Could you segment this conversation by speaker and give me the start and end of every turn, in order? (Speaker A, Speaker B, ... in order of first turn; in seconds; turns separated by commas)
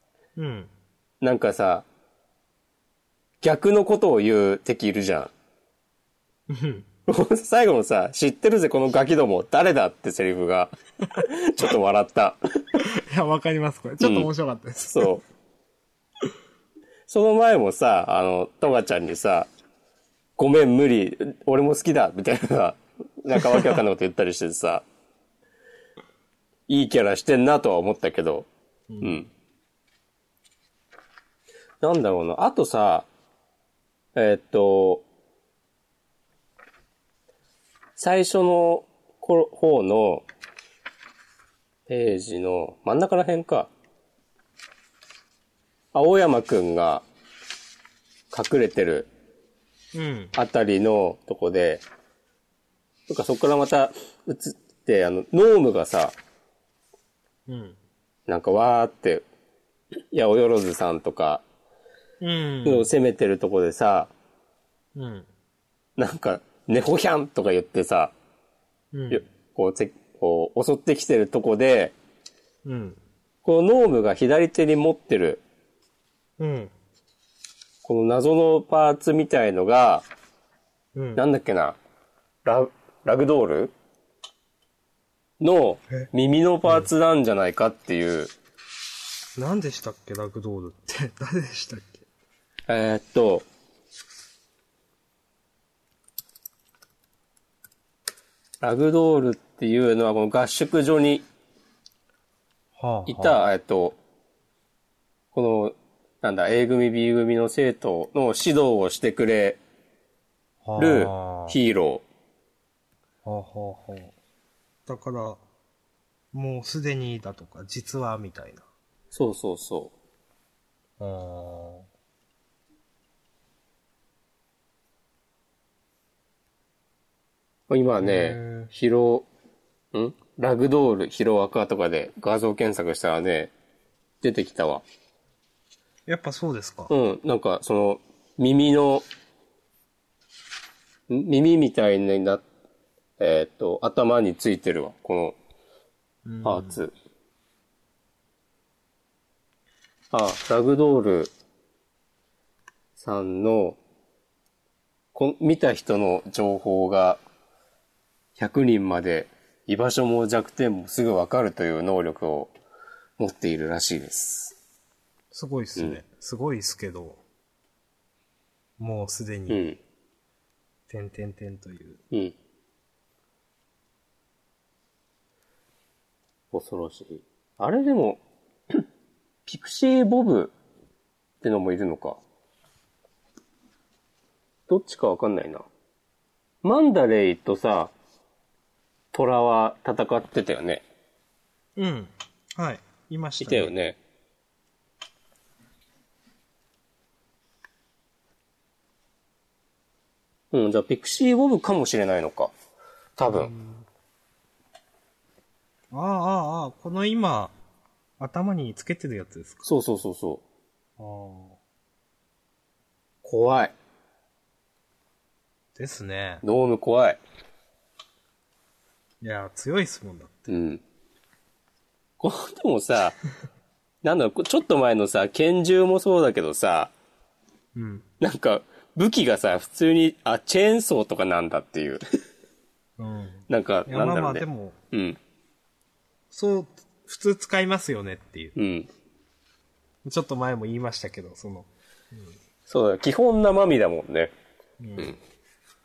Speaker A: 0.3-0.7, Speaker B: 1.2-1.9, Speaker B: 3.4-5.3, Speaker A: 6.5-6.9, Speaker B: 7.1-12.4, Speaker A: 12.8-15.1, Speaker B: 14.0-14.3, Speaker B: 14.9-15.2, Speaker B: 17.1-19.5, Speaker B: 20.4-24.8, Speaker A: 23.4-23.8, Speaker B: 26.7-28.5, Speaker A: 28.9-29.3, Speaker B: 29.0-29.3, Speaker B: 31.8-33.1, Speaker B: 34.1-35.0, Speaker B: 38.0-40.3, Speaker B: 41.9-43.7, Speaker B: 45.9-47.0, Speaker B: 48.3-49.1, Speaker A: 49.9-50.3, Speaker B: 50.3-51.8, Speaker B: 53.1-56.1, Speaker A: 57.5-57.8, Speaker B: 58.3-59.2, Speaker B: 60.1-61.4, Speaker A: 62.2-62.9, Speaker B: 62.6-64.1, Speaker A: 64.9-65.3, Speaker B: 66.0-68.1, Speaker A: 68.9-69.2, Speaker B: 69.1-71.9, Speaker A: 72.6-73.0, Speaker B: 73.4-75.4, Speaker A: 76.4-76.7, Speaker B: 77.8-80.0, Speaker A: 80.9-81.2, Speaker B: 81.2-81.8, Speaker B: 82.4-83.7, Speaker B: 85.4-88.3, Speaker A: 89.4-92.0, Speaker B: 92.7-93.5, Speaker B: 98.6-101.2, Speaker A: 102.8-103.4, Speaker B: 103.1-104.0, Speaker B: 105.3-109.6, Speaker A: 110.6-111.6, Speaker B: 110.8-112.0, Speaker A: 113.2-114.1, Speaker A: 114.9-115.4, Speaker A: 116.3-118.6, Speaker B: 119.1-119.9, Speaker A: 121.0-121.9, Speaker B: 127.7-129.3, Speaker A: 128.0-128.7, Speaker B: 129.9-133.5, Speaker B: 134.2-134.8, Speaker A: 136.1-136.9, Speaker B: 136.9-139.0, Speaker B: 141.1-142.4, Speaker B: 143.2-145.3, Speaker A: 146.2-146.8, Speaker B: 146.4-146.9, Speaker B: 150.1-151.3, Speaker B: 153.0-153.8, Speaker B: 155.1-157.2, Speaker B: 158.4-162.5, Speaker B: 163.2-164.5, Speaker A: 165.3-167.2, Speaker A: 168.8-169.6, Speaker B: 169.5-169.8, Speaker A: 170.9-172.0, Speaker B: 176.5-178.8, Speaker B: 179.5-180.5, Speaker B: 181.4-182.2, Speaker B: 184.7-185.7, Speaker B: 186.6-187.9, Speaker B: 189.1-190.8, Speaker A: 191.8-193.7, Speaker B: 193.4-194.0, Speaker B: 200.5-202.5, Speaker B: 203.2-203.5, Speaker A: 203.3-203.9, Speaker A: 205.9-207.6, Speaker A: 208.2-209.7, Speaker B: 209.6-210.4, Speaker A: 211.0-211.6, Speaker B: 213.2-213.7, Speaker A: 215.7-216.4, Speaker B: 216.4-217.2, Speaker A: 219.2-220.5, Speaker B: 220.5-220.8, Speaker B: 222.2-223.2, Speaker B: 224.0-226.9, Speaker A: 227.7-228.0, Speaker B: 228.2-232.0, Speaker A: 233.0-234.8, Speaker B: 233.5-235.2, Speaker A: 236.3-238.6, Speaker B: 238.6-238.9, Speaker A: 240.0-242.3, Speaker B: 242.7-244.3, Speaker A: 244.8-245.2